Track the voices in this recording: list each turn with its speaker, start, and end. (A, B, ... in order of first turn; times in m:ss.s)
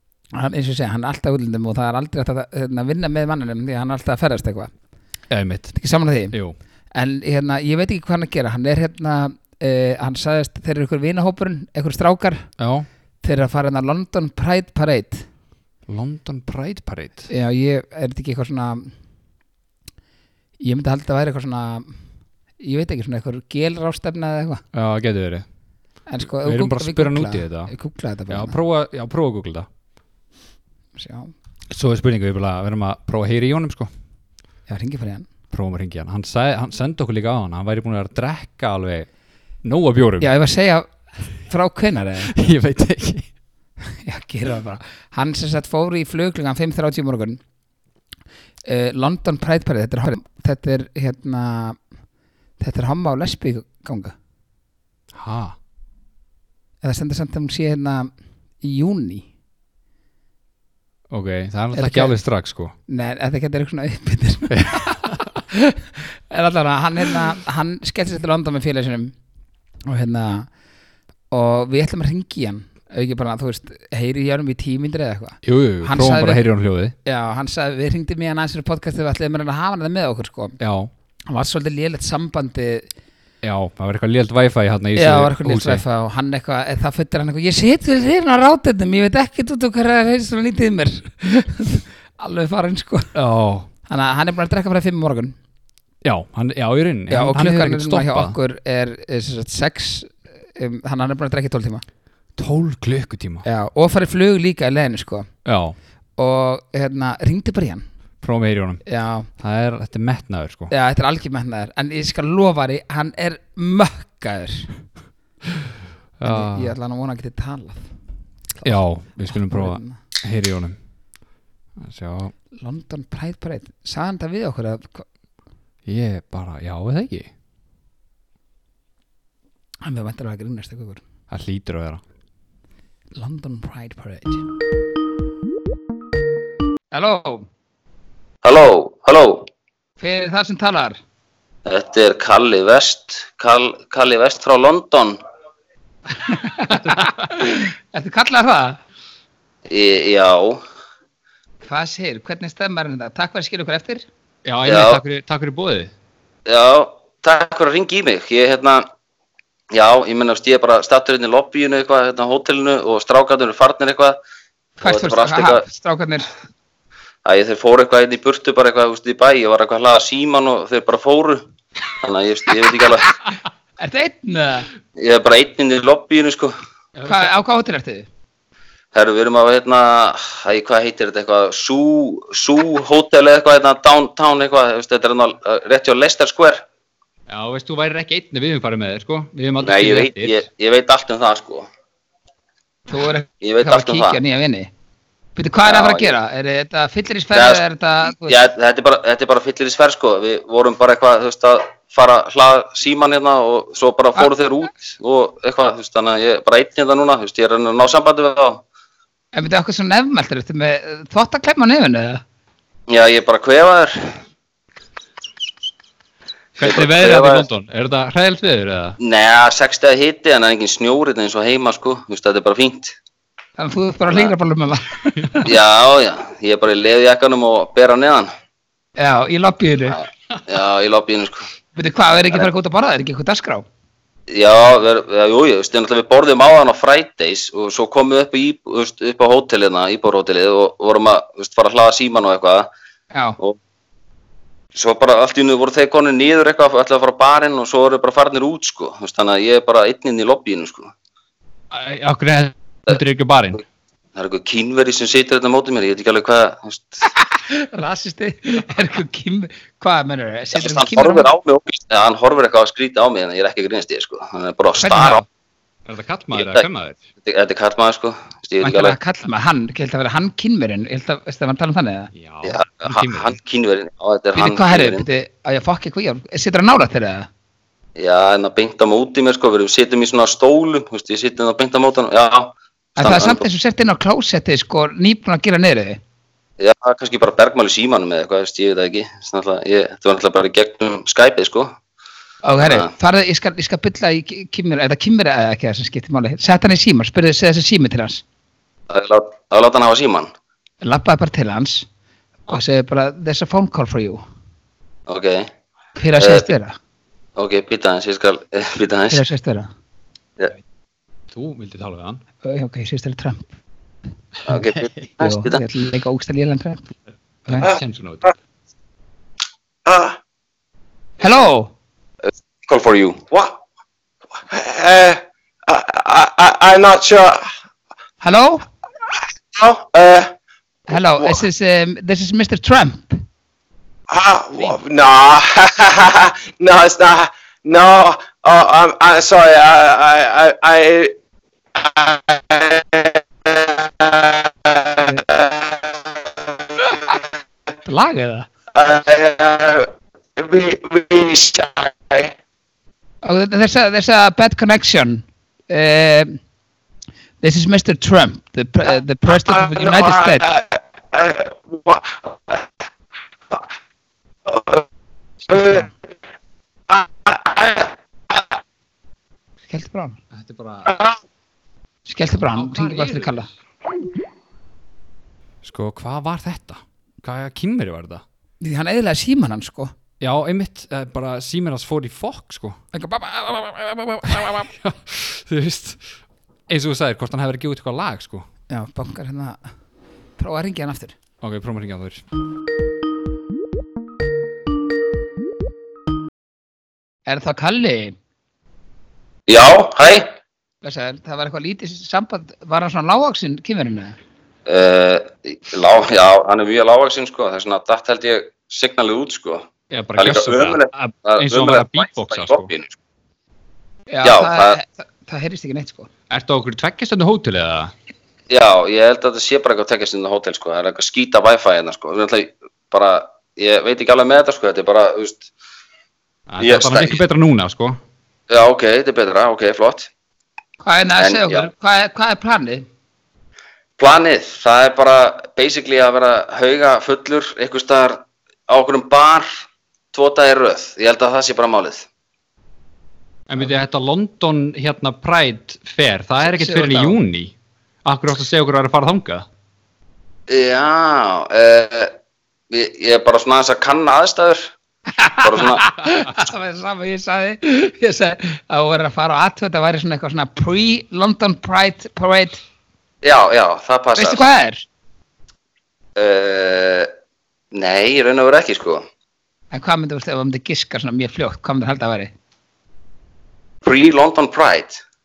0:00.3-0:04.7 A
0:05.3-0:05.7 B
0:05.7-0:06.4 A
0:06.3-0:06.6 B
0:06.9-0:12.5 A
0:12.6-0:12.9 B
0:13.2-0:15.2 A
0:15.9-0:17.3 B
0:17.3-0:18.9 A
0:20.6-0:22.0 A
0:22.6-0:24.6 A
0:24.7-0:25.4 B
0:26.1-0:28.5 A
0:26.4-0:27.7 B
0:28.3-0:29.7 B
0:31.0-0:31.3 A
0:31.7-0:33.9 B
0:34.7-0:35.3 A
0:35.5-0:39.1 B
0:39.6-0:40.3 B
0:40.2-0:42.3 A
0:42.3-0:43.3 B
0:44.0-0:47.4 A
0:48.6-0:51.8 A
0:52.6-0:54.1 A
0:55.1-0:55.6 B
0:56.8-0:59.3 A
1:01.1-1:02.7 B
1:01.7-1:02.1 A
1:02.9-1:09.1 A
1:04.5-1:05.2 B
1:09.9-1:10.5 A
1:11.3-1:16.4 A
1:15.4-1:16.9 B
1:17.0-1:20.6 A
1:20.6-1:20.9 B
1:21.3-1:22.9 A
1:23.4-1:25.8 B
1:25.0-1:33.1 A
1:33.1-1:33.7 B
1:33.9-1:35.3 A
1:36.0-1:38.4 B
1:37.1-1:41.8 A
1:42.4-1:43.4 B
1:43.4-1:45.3 A
1:45.4-1:45.8 B
1:46.2-1:47.8 A
1:48.2-1:48.8 B
1:48.8-1:49.3 A
1:49.4-1:50.7 B
1:50.7-1:54.7 A
1:56.2-1:56.7 B
1:56.2-1:57.9 A
1:58.6-2:00.0 A
1:58.6-2:00.8 B
2:01.8-2:02.3 B
2:02.6-2:05.0 A
2:05.8-2:07.3 B
2:09.8-2:11.0 A
2:11.3-2:12.0 B
2:13.1-2:14.4 A
2:16.9-2:17.5 A
2:18.4-2:19.5 C
2:20.0-2:21.0 A
2:21.6-2:25.2 C
2:26.2-2:28.8 A
2:26.7-2:27.3 B
2:29.7-2:30.6 C
2:31.6-2:34.0 A
2:34.4-2:35.9 B
2:34.6-2:35.0 C
2:36.4-2:38.9 C
2:39.7-2:44.2 C
2:44.8-2:46.3 A
2:44.8-2:45.6 C
2:47.2-2:53.1 C
2:53.8-2:54.7 A
2:55.0-2:56.5 C
2:57.0-2:57.3 B
2:57.0-2:58.1 A
2:58.9-3:06.6 C
3:07.3-3:10.4 B
3:09.6-3:11.7 C
3:12.9-3:14.7 A
3:13.4-3:14.2 C
3:15.4-3:18.4 A
3:15.6-3:16.1 C
3:17.3-3:28.6 C
3:29.3-3:32.2 A
3:32.9-3:34.2 C
3:36.6-3:39.0 B
3:36.6-3:37.4 C
3:39.0-3:42.9 C
3:43.6-3:45.4 A
3:45.4-3:48.3 C
3:49.0-3:50.0 A
3:49.9-3:51.4 C
3:51.8-3:53.6 A
3:54.3-4:02.7 C
4:03.1-4:03.4 A
4:04.7-4:10.9 C
4:11.7-4:13.6 B
4:14.1-4:17.1 C
4:17.2-4:21.3 A
4:20.5-4:25.2 C
4:24.8-4:25.2 A
4:25.8-4:27.0 B
4:26.3-4:26.7 C
4:27.2-4:29.0 C
4:28.6-4:32.1 A
4:32.1-4:33.3 B
4:32.4-4:35.0 C
4:34.3-4:37.3 A
4:38.0-4:43.4 C
4:43.0-4:46.0 A
4:46.6-4:51.8 C
4:52.4-4:58.2 A
4:52.6-4:52.9 C
4:58.9-5:00.3 C
5:00.8-5:01.8 A
5:02.5-5:04.2 A
5:05.1-5:05.5 C
5:06.0-5:06.7 A
5:06.2-5:06.5 C
5:07.4-5:09.2 C
5:09.1-5:09.7 A
5:11.3-5:12.2 B
5:12.4-5:13.5 A
5:14.4-5:15.6 C
5:15.2-5:16.9 A
5:17.5-5:18.3 B
5:19.8-5:20.2 D
5:21.2-5:21.7 A
5:22.2-5:23.3 C
5:24.4-5:27.4 D
5:28.2-5:28.6 A
5:29.5-5:30.3 D
5:30.9-5:33.2 A
5:34.1-5:41.1 D
5:41.8-5:45.9 D
5:46.8-5:47.2 D
5:47.8-5:48.5 A
5:48.7-5:52.3 D
5:53.2-5:56.4 A
5:57.4-6:00.4 A
5:59.3-6:02.7 D
6:04.4-6:04.8 D
6:05.5-6:05.9 D
6:06.9-6:08.5 D
6:09.7-6:10.2 A
6:10.3-6:10.9 B
6:10.8-6:11.2 D
6:12.1-6:13.5 A
6:12.5-6:13.5 B
6:15.6-6:18.2 B
6:18.6-6:19.9 A
6:20.2-6:22.8 B
6:22.9-6:24.6 A
6:24.3-6:26.0 B
6:26.7-6:28.5 B
6:28.7-6:29.6 A
6:30.4-6:31.2 A
6:31.4-6:32.2 B
6:37.2-6:38.2 A
6:39.5-6:40.3 C
6:40.8-6:44.2 A
6:44.7-6:53.0 C
6:49.9-6:52.7 B
6:54.1-6:56.1 A
6:54.2-6:54.8 C
6:56.3-6:57.9 B
6:58.5-7:05.5 C
7:06.5-7:08.0 B
7:06.6-7:07.2 C
7:08.5-7:10.1 C
7:10.8-7:12.8 A
7:11.2-7:11.7 C
7:14.0-7:22.1 C
7:23.5-7:27.5 B
7:26.4-7:27.1 A
7:28.0-7:29.5 B
7:30.5-7:32.1 C
7:32.7-7:34.7 C
7:35.2-7:42.6 A
7:35.4-7:35.8 C
7:43.2-7:44.4 C
7:44.2-7:44.8 A
7:46.2-7:47.1 C
7:47.7-7:49.0 C
7:49.7-7:52.3 A
7:53.8-7:55.0 C